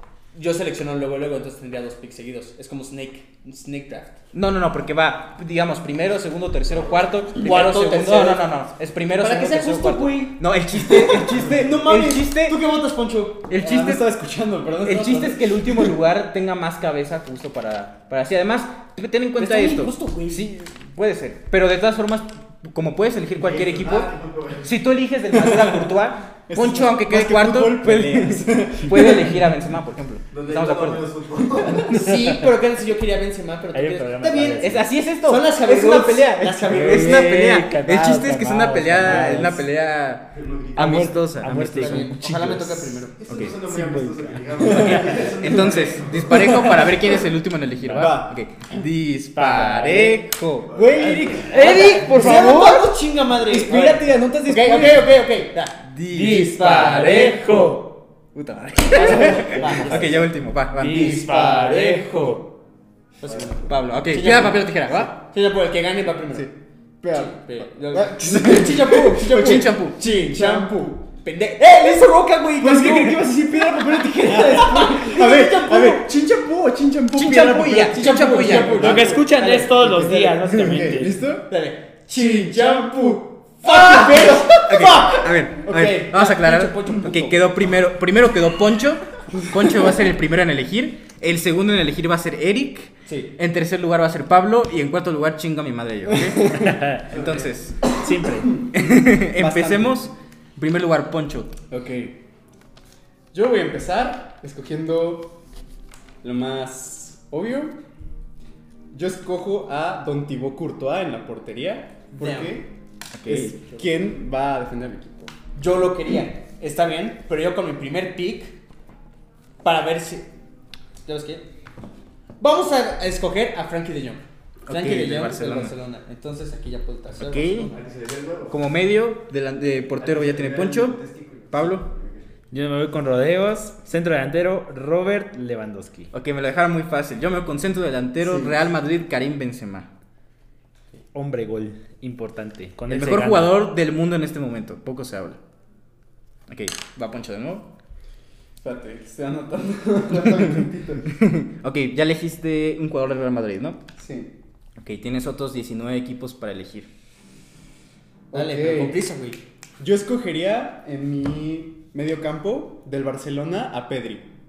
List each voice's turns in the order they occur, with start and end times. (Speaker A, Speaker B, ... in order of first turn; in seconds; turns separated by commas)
Speaker A: 0.3-4.2, Speaker B: 4.3-12.6, Speaker A: 7.4-8.4, Speaker A: 9.1-13.5, Speaker B: 13.5-14.1, Speaker C: 13.6-16.0, Speaker B: 14.8-31.1, Speaker A: 19.4-20.4, Speaker D: 23.5-24.7, Speaker C: 25.3-29.4, Speaker D: 30.3-32.0, Speaker B: 31.8-32.2, Speaker A: 31.9-37.3, Speaker E: 33.7-34.9, Speaker B: 34.4-42.0, Speaker E: 36.7-39.7, Speaker D: 40.3-41.1, Speaker E: 40.8-42.9, Speaker A: 41.5-43.2, Speaker D: 43.2-46.3, Speaker B: 43.3-43.6, Speaker E: 43.5-44.7, Speaker C: 44.6-47.2, Speaker B: 44.6-52.8, Speaker E: 47.8-48.1, Speaker C: 47.9-48.4, Speaker E: 49.4-50.2, Speaker D: 50.7-51.7, Speaker E: 51.5-52.8, Speaker A: 51.5-57.8, Speaker B: 53.5-55.0, Speaker C: 53.8-54.1, Speaker B: 55.8-57.2, Speaker E: 56.1-57.9, Speaker B: 58.3-61.3, Speaker A: 58.9-60.2, Speaker E: 59.0-60.2, Speaker E: 60.8-62.4, Speaker A: 60.9-62.4, Speaker A: 63.2-66.5, Speaker B: 63.7-65.1, Speaker C: 66.3-71.0, Speaker A: 67.1-76.1, Speaker B: 68.4-70.0, Speaker C: 72.6-81.5, Speaker B: 77.2-79.1, Speaker A: 77.7-80.1, Speaker E: 78.7-81.2, Speaker A: 81.5-87.5, Speaker C: 82.1-84.9, Speaker B: 84.5-97.9, Speaker A: 93.1-93.3, Speaker C: 96.1-96.8, Speaker E: 96.5-97.0, Speaker E: 97.9-98.6, Speaker B: 98.7-101.5, Speaker C: 99.4-100.1, Speaker C: 101.7-102.2, Speaker C: 103.3-105.4, Speaker C: 106.2-107.8, Speaker C: 108.9-112.7, Speaker A: 112.2-112.6, Speaker B: 113.1-113.5, Speaker C: 113.3-115.3, Speaker A: 115.6-118.6, Speaker A: 119.6-120.3, Speaker A: 121.0-121.5, Speaker A: 122.4-127.8, Speaker B: 124.7-125.7, Speaker B: 127.2-127.7, Speaker D: 127.7-128.6, Speaker B: 128.5-131.0, Speaker D: 130.0-132.2, Speaker B: 131.5-131.9, Speaker E: 132.5-136.1, Speaker B: 136.1-139.9, Speaker C: 138.2-138.5, Speaker E: 141.1-143.5, Speaker B: 142.9-145.4, Speaker B: 146.5-147.7, Speaker C: 148.6-151.1, Speaker B: 151.1-153.8, Speaker C: 154.0-154.3, Speaker B: 154.8-156.9, Speaker C: 158.3-159.0, Speaker A: 158.3-159.4, Speaker C: 159.8-164.3